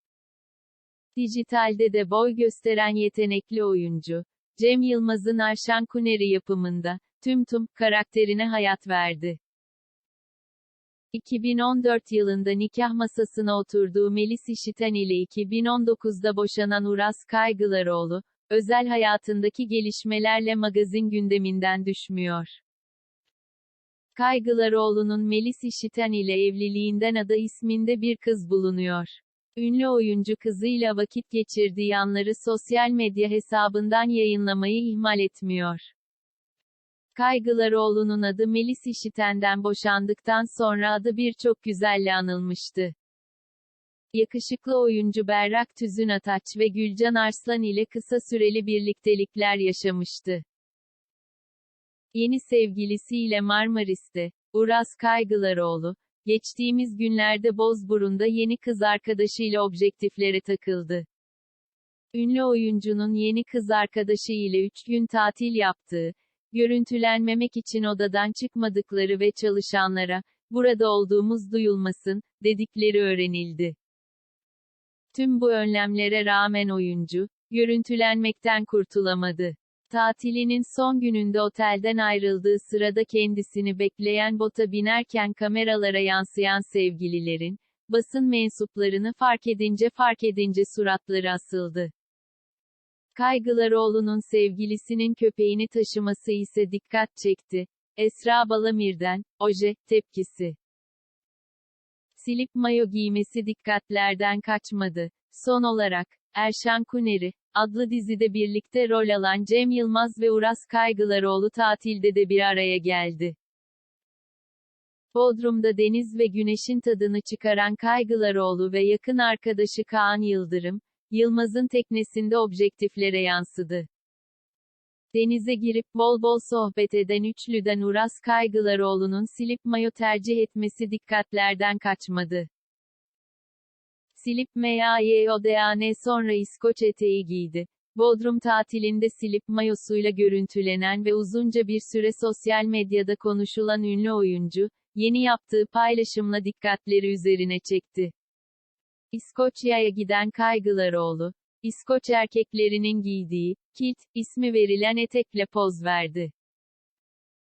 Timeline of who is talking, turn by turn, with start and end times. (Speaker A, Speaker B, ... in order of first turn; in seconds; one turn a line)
Speaker A: 1.2-9.4
Speaker A: 11.1-22.6
Speaker A: 24.2-35.9
Speaker A: 37.2-42.9
Speaker A: 44.1-50.4
Speaker A: 52.1-61.1
Speaker A: 62.1-73.8
Speaker A: 75.1-91.9
Speaker A: 93.2-100.6
Speaker A: 102.2-113.3
Speaker A: 115.1-123.9
Speaker A: 125.1-132.5
Speaker A: 134.1-148.1
Speaker A: 149.1-156.3